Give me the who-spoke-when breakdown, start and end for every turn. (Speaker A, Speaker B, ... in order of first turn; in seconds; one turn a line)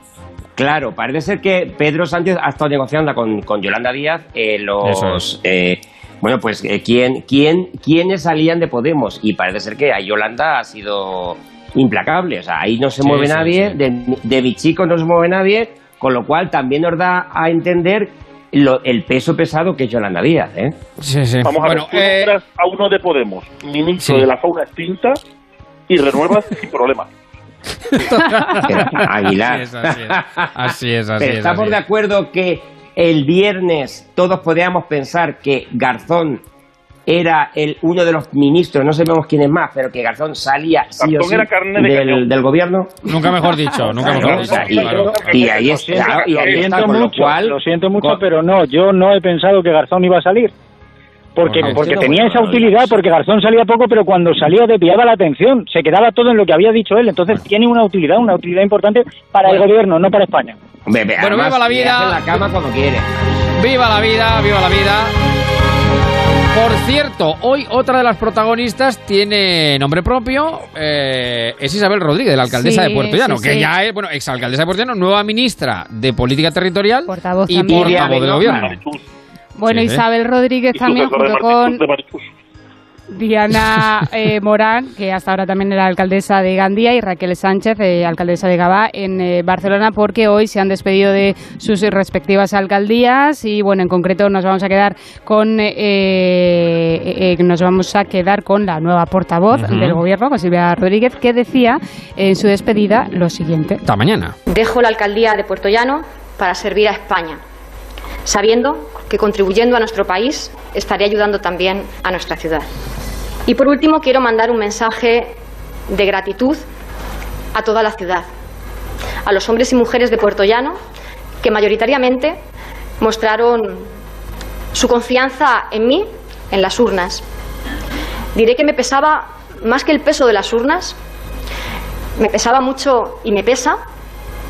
Speaker A: 0.6-20.8
Speaker B: 4.8-5.2
Speaker B: 13.0-13.8
Speaker B: 21.0-22.3
Speaker C: 21.4-25.2
Speaker B: 24.0-24.3
Speaker C: 25.9-27.1
Speaker B: 27.9-31.8
Speaker A: 28.7-36.4
Speaker A: 37.1-42.9
Speaker C: 41.0-42.2
Speaker B: 43.1-45.5
Speaker A: 43.8-48.2
Speaker D: 44.1-44.7
Speaker C: 44.6-46.7
Speaker D: 45.4-50.5
Speaker D: 51.4-60.6
Speaker B: 51.5-52.9
Speaker A: 60.9-63.1
Speaker B: 61.2-62.4
Speaker B: 63.6-65.1
Speaker B: 66.5-78.8
Speaker E: 72.5-73.7
Speaker E: 77.1-78.2
Speaker C: 78.2-79.0
Speaker E: 79.6-81.8
Speaker B: 79.7-80.0
Speaker C: 80.7-82.3
Speaker E: 83.1-103.8
Speaker B: 99.5-100.0
Speaker B: 103.8-104.3
Speaker F: 104.5-107.4
Speaker F: 108.2-112.7
Speaker F: 113.5-115.3
Speaker F: 115.9-116.6
Speaker F: 117.5-118.3
Speaker F: 119.2-120.8
Speaker F: 121.4-122.4
Speaker F: 123.0-123.8
Speaker F: 124.7-127.2
Speaker F: 128.3-130.9
Speaker F: 132.2-133.8